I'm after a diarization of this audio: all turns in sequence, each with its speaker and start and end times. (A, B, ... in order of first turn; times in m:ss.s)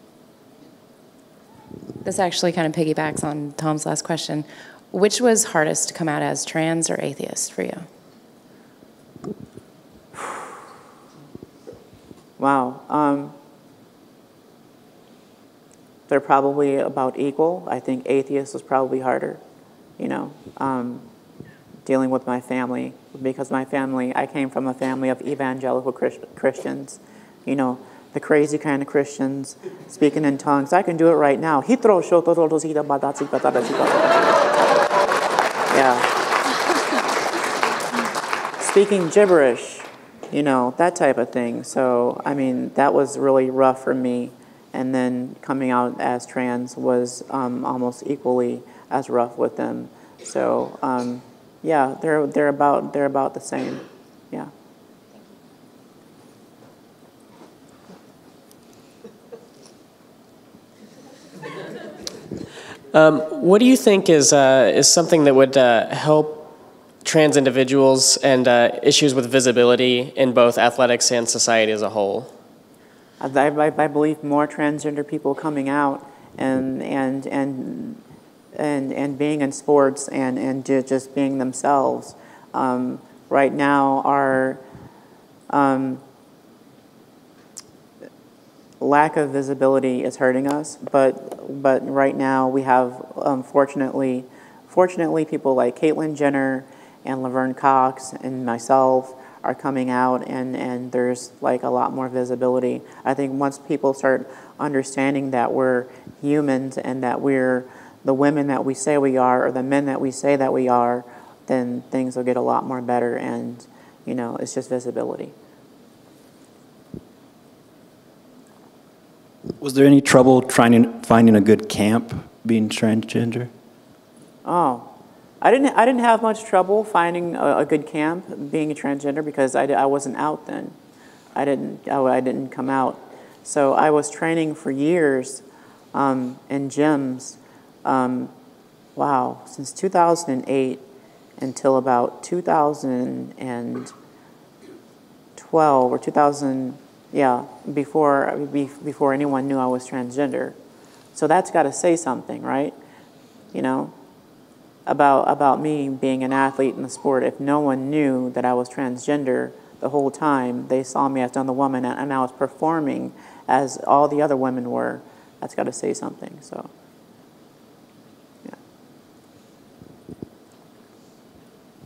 0:02.0-0:07.9 A
0:12.4-0:13.4 B
0:16.1-0:19.4 B
0:20.0-0:21.1 B
0:21.8-0:34.4 B
0:35.7-0:36.1 B
0:38.6-0:54.5 B
1:02.9-1:05.2 A
1:03.0-1:06.4 C
1:05.8-1:06.5 A
1:07.0-1:08.9 A
1:07.1-1:12.3 C
1:13.2-1:18.0 B
1:18.5-1:24.6 B
1:25.5-1:26.0 B
1:28.8-1:55.3 B
1:59.6-2:03.5 D
2:04.4-2:10.8 B
2:11.4-2:18.3 B
2:19.0-2:20.8 B
2:21.4-2:23.9 B
2:25.4-2:30.6 B
2:31.1-2:32.8 B
2:33.5-2:34.0 B
2:34.9-2:46.7 B